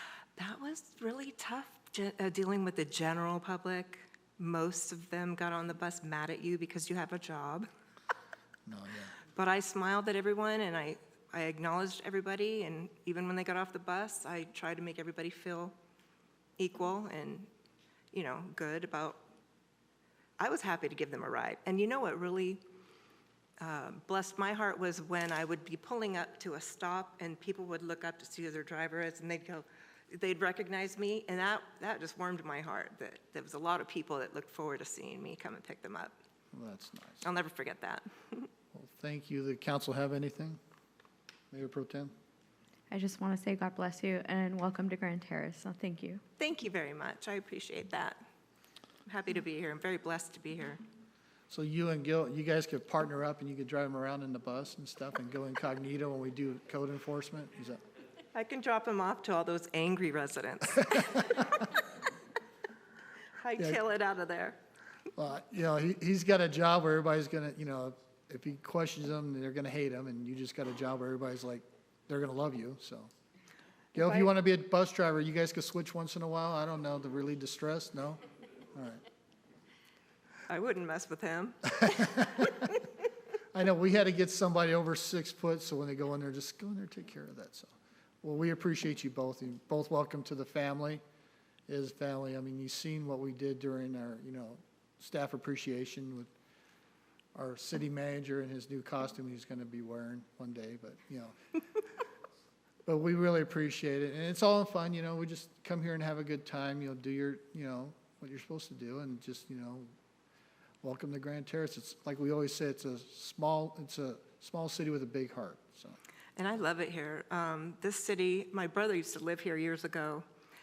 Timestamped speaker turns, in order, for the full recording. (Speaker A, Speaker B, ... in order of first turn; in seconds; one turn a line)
Speaker A: 0.4-7.7
Speaker B: 8.7-9.2
Speaker A: 9.3-15.8
Speaker A: 16.6-17.5
Speaker A: 18.1-19.2
Speaker A: 20.4-22.6
Speaker A: 23.6-36.1
Speaker B: 36.5-37.2
Speaker A: 37.2-38.5
Speaker B: 38.7-40.6
Speaker B: 41.5-42.1
Speaker C: 42.9-46.2
Speaker A: 46.4-48.2
Speaker A: 49.1-50.8
Speaker B: 51.5-57.8
Speaker A: 58.3-61.5
Speaker A: 63.4-64.6
Speaker B: 65.2-73.1
Speaker B: 74.0-78.2
Speaker A: 74.0-74.3
Speaker B: 78.7-79.0
Speaker A: 80.5-81.6
Speaker B: 81.8-82.4
Speaker B: 83.5-91.0
Speaker B: 91.7-96.3
Speaker B: 97.3-101.3
Speaker B: 102.9-109.9
Speaker B: 110.8-116.0
Speaker A: 116.4-120.2